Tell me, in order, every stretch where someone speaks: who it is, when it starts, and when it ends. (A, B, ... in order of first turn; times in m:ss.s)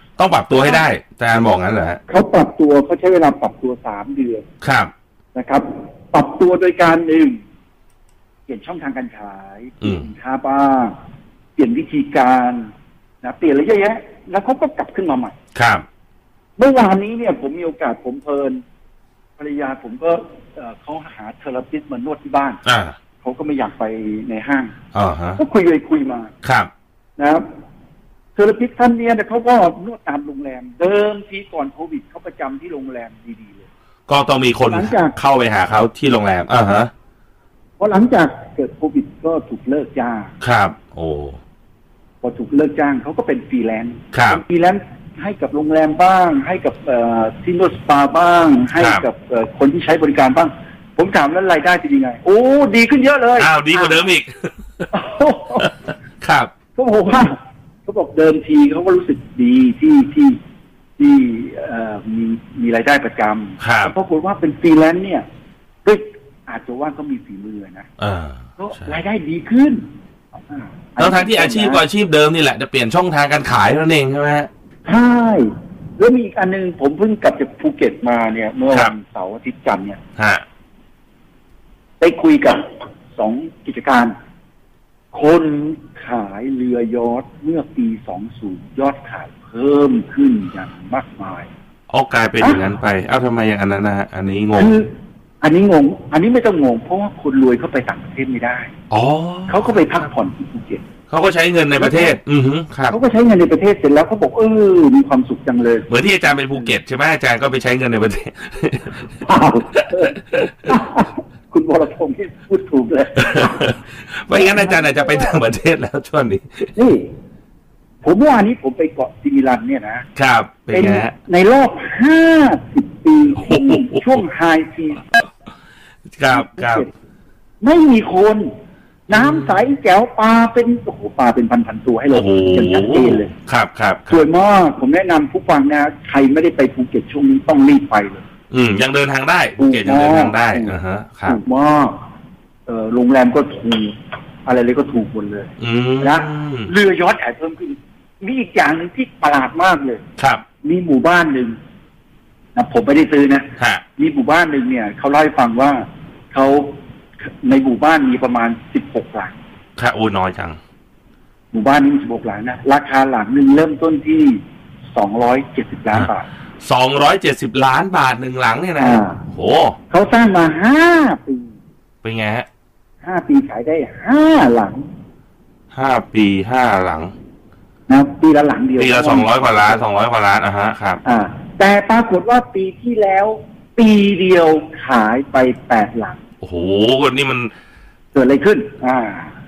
0:00.2-0:02.0 A
0:02.1-0:04.4 B
0:04.6-0:04.9 A
0:05.3-0:07.4 B
0:08.5-0:10.9 B
0:09.8-0:10.1 A
0:11.6-0:15.4 B
0:15.5-0:15.8 A
0:16.6-0:18.6 B
0:19.4-0:22.6 B
0:22.6-0:23.0 A
0:23.2-0:24.7 B
0:24.9-0:25.4 A
0:25.4-0:26.3 B
0:26.4-0:26.7 A
0:27.2-0:27.4 B
0:28.4-0:33.7 B
0:34.1-0:36.9 A
0:34.6-0:35.1 B
0:37.8-0:40.3 B
0:40.4-0:41.4 A
0:42.2-0:54.1 B
0:44.1-0:44.4 A
0:48.8-0:49.0 A
0:53.4-0:54.9 A
0:54.9-0:55.7 B
0:55.6-0:56.5 A
0:56.8-1:00.4 B
1:01.0-1:05.2 B
1:03.6-1:03.9 A
1:05.8-1:07.9 B
1:08.0-1:09.0 A
1:08.6-1:09.8 B
1:10.5-1:11.8 B
1:11.0-1:14.5 A
1:14.8-1:20.0 B
1:20.2-1:20.4 A
1:22.0-1:24.1 B
1:25.1-1:31.5 B
1:31.9-1:34.8 A
1:34.5-1:38.7 B
1:38.9-1:39.7 A
1:39.5-1:40.8 B
1:41.1-1:43.0 A
1:41.8-1:42.2 B
1:42.9-1:45.9 B
1:45.9-1:49.1 A
1:49.2-1:53.7 B
1:49.8-1:50.8 A
1:53.2-1:56.7 A
1:54.3-1:55.4 B
1:56.8-1:57.1 B
1:58.0-2:00.0 B
2:00.2-2:01.1 A
2:00.7-2:05.1 B
2:03.4-2:04.2 A
2:06.1-2:06.8 A
2:06.3-2:06.9 B
2:07.6-2:08.5 B
2:09.1-2:13.3 B
2:09.1-2:09.6 A
2:12.1-2:14.2 A
2:14.1-2:18.2 B
2:18.5-2:21.4 A
2:19.6-2:22.0 B
2:22.7-2:23.9 B
2:24.4-2:30.0 B
2:25.6-2:26.7 A
2:30.2-2:30.4 A
2:30.6-2:31.6 B
2:32.6-2:39.4 B
2:39.8-2:40.6 A
2:41.5-2:44.4 B
2:44.9-2:46.3 B
2:46.6-2:49.8 A
2:48.8-2:49.2 B
2:49.9-2:51.5 B
2:52.0-2:52.5 A
2:53.0-2:54.9 B
2:55.7-2:57.1 A
2:57.9-2:59.8 B
2:58.8-3:01.0 A
3:01.0-3:06.2 B
3:06.4-3:07.5 A
3:08.1-3:09.3 B